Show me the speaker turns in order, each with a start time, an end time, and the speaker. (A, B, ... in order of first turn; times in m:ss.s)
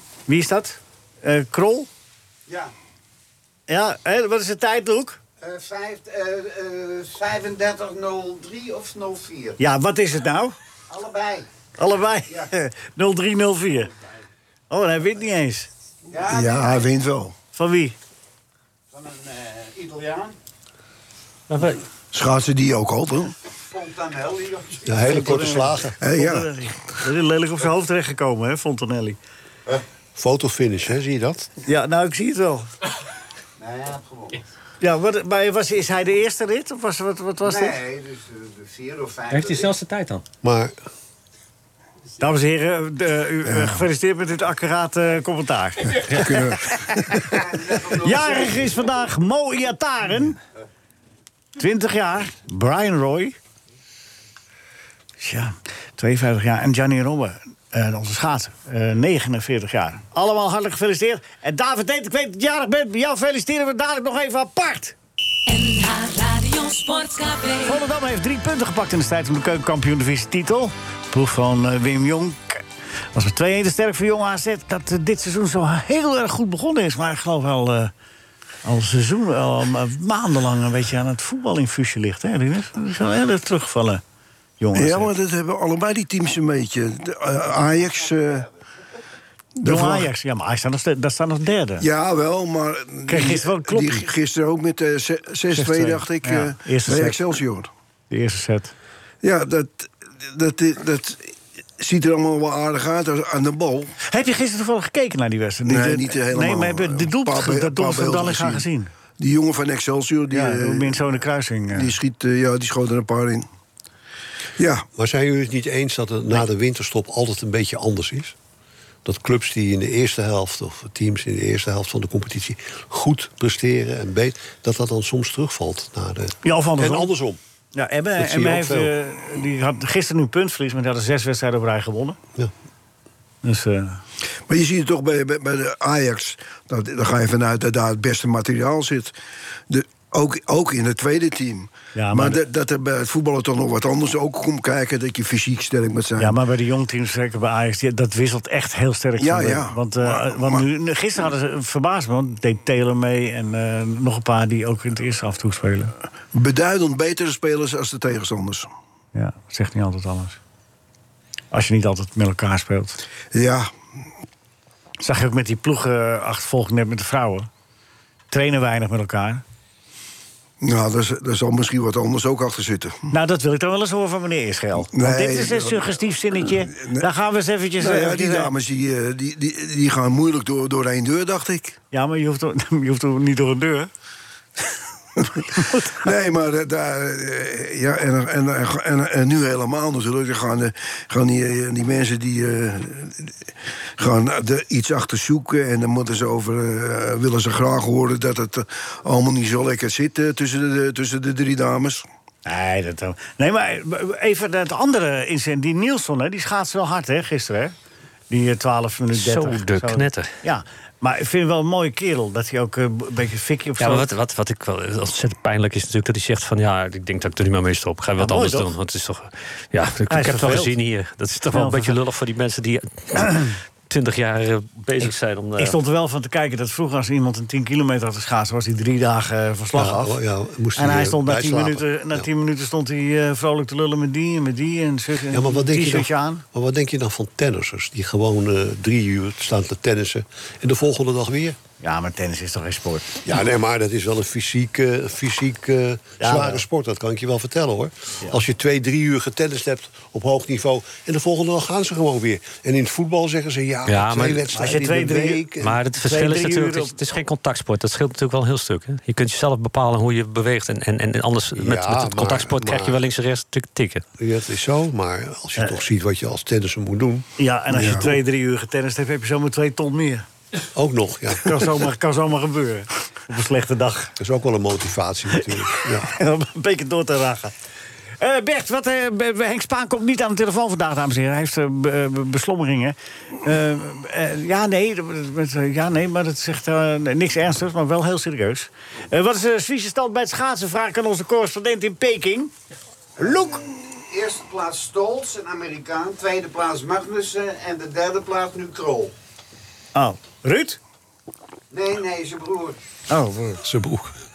0:00.3-0:01.9 A
0:03.7-0:05.2 A
0:05.4-0:09.6 B
0:09.6-0:10.5 A
0:10.9-0:11.4 B
0:11.8-0:13.9 A
0:14.7-0:15.7 A
0:16.1-0:16.9 B
0:16.3-0:17.3 C
0:17.5-0:18.0 A
0:18.9-0:20.3 B
0:21.5-0:21.8 D
0:22.1-0:23.3 C
0:23.7-0:25.1 B
0:24.9-0:26.0 E
0:25.0-0:29.2 A
0:26.0-0:26.5 C
0:30.2-0:31.5 E
0:31.6-0:32.7 A
0:33.6-0:34.4 B
0:34.8-0:37.8 A
0:37.4-0:39.7 B
0:39.3-0:40.2 D
0:40.4-0:40.7 E
0:42.2-0:47.3 A
0:43.4-0:43.8 C
0:46.1-0:47.2 C
0:47.3-0:48.7 B
0:48.0-0:50.4 A
0:51.6-0:53.4 A
0:55.2-1:05.0 A
1:05.5-1:07.8 F
1:07.6-1:17.9 A
1:18.6-1:24.0 A
1:24.6-1:25.1 A
1:24.7-1:28.5 C
1:29.6-1:30.1 C
1:29.6-1:31.8 A
1:31.8-1:37.7 C
1:33.1-1:34.0 A
1:35.5-1:37.2 A
1:38.1-1:38.7 A
1:39.2-1:43.9 C
1:44.0-1:48.9 A
1:45.6-1:48.7 C
1:49.2-1:51.1 C
1:50.3-1:51.9 A
1:51.7-1:53.5 C
1:54.6-1:54.8 C
1:55.0-1:58.3 E
1:59.0-2:07.4 E
2:06.4-2:07.1 A
2:07.7-2:12.2 A
2:08.2-2:08.9 E
2:13.4-2:14.0 A
2:14.5-2:19.1 C
2:19.7-2:26.4 C
2:21.9-2:22.4 A
2:26.2-2:35.9 A
2:29.2-2:30.7 C
2:36.3-2:38.7 C
2:39.1-2:40.4 A
2:41.5-2:43.0 A
2:43.3-2:43.7 C
2:45.0-2:47.5 A
2:48.3-2:49.4 A
2:50.6-2:53.0 C
2:53.1-2:58.5 A
2:54.8-2:57.1 C
2:57.8-3:01.8 C
3:01.9-3:03.9 A
3:05.2-3:22.0 C
3:05.6-3:05.9 A
3:22.4-3:27.7 A
3:28.3-3:34.1 A
3:29.1-3:30.3 D
3:33.8-3:45.8 D
3:38.2-3:38.7 A
3:40.1-3:40.7 A
3:41.5-3:42.0 A
3:45.6-3:50.2 A
3:49.7-3:52.2 E
3:50.8-3:56.4 A
3:55.3-4:01.6 E
4:01.8-4:03.3 A
4:03.2-4:15.8 E
4:06.2-4:06.6 A
4:13.8-4:14.4 D
4:14.5-4:16.9 A
4:15.6-4:24.0 D
4:21.5-4:23.0 E
4:24.2-4:27.2 E
4:27.4-4:30.2 A
4:27.7-4:28.1 C
4:30.7-4:31.7 E
4:31.4-4:34.1 A
4:34.2-4:36.1 E
4:35.8-4:37.5 A
4:38.2-4:52.5 A
4:53.2-4:59.1 B
4:59.9-5:00.8 A
5:01.7-5:02.8 B
5:03.1-5:03.6 A
5:03.6-5:04.1 E